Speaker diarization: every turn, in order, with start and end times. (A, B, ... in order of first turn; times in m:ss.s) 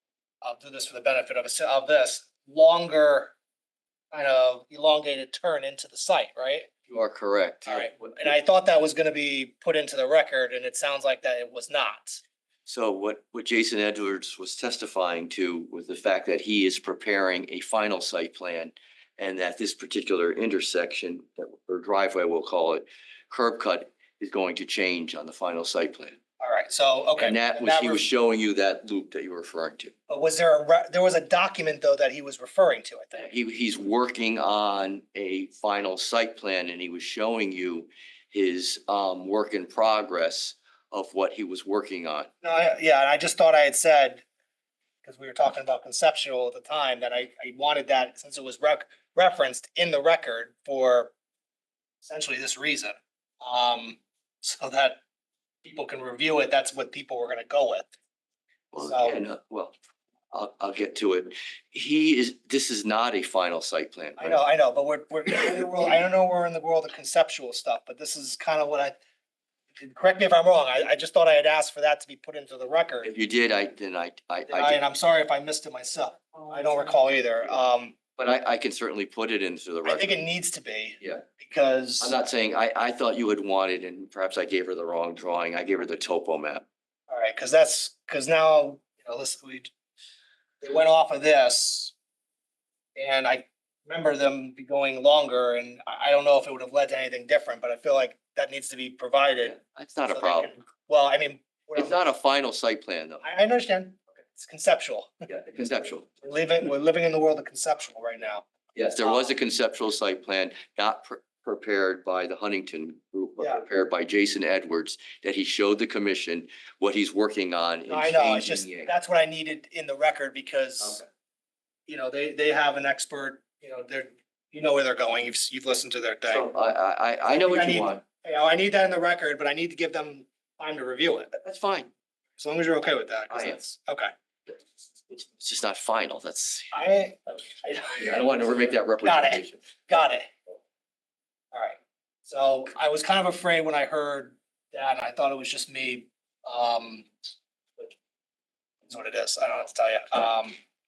0:00.4-0:03.3 A
0:04.1-0:06.7 A
0:06.9-0:08.2 B
0:07.7-0:12.2 A
0:12.7-0:26.2 B
0:26.4-0:28.0 A
0:27.2-0:29.9 B
0:30.1-0:33.3 A
0:33.2-0:42.3 B
0:42.4-0:44.2 A
0:45.0-0:51.1 A
0:52.0-0:55.0 A
0:55.6-0:57.9 A
0:58.7-0:59.7 B
0:58.8-0:59.2 A
1:00.3-1:04.4 B
1:04.2-1:09.0 A
1:09.8-1:13.1 A
1:13.0-1:14.8 B
1:14.5-1:18.0 A
1:18.2-1:20.2 B
1:19.8-1:22.2 A
1:22.0-1:26.6 B
1:27.1-1:29.7 A
1:30.6-1:31.9 A
1:33.0-1:39.6 A
1:39.4-1:40.5 B
1:40.1-1:42.0 A
1:41.8-1:43.2 B
1:43.2-1:45.1 A
1:45.3-1:46.1 B
1:46.2-1:48.5 A
1:48.8-1:58.9 B
1:49.0-1:49.3 A
1:57.9-2:01.0 A
2:01.9-2:06.5 A
2:06.3-2:08.0 B
2:07.3-2:11.4 A
2:11.4-2:11.9 B
2:12.4-2:14.1 A
2:13.3-2:13.6 B
2:15.1-2:16.7 B
2:16.7-2:18.4 A
2:18.0-2:19.6 B
2:19.0-2:20.3 A
2:21.5-2:27.1 A
2:28.9-2:30.6 A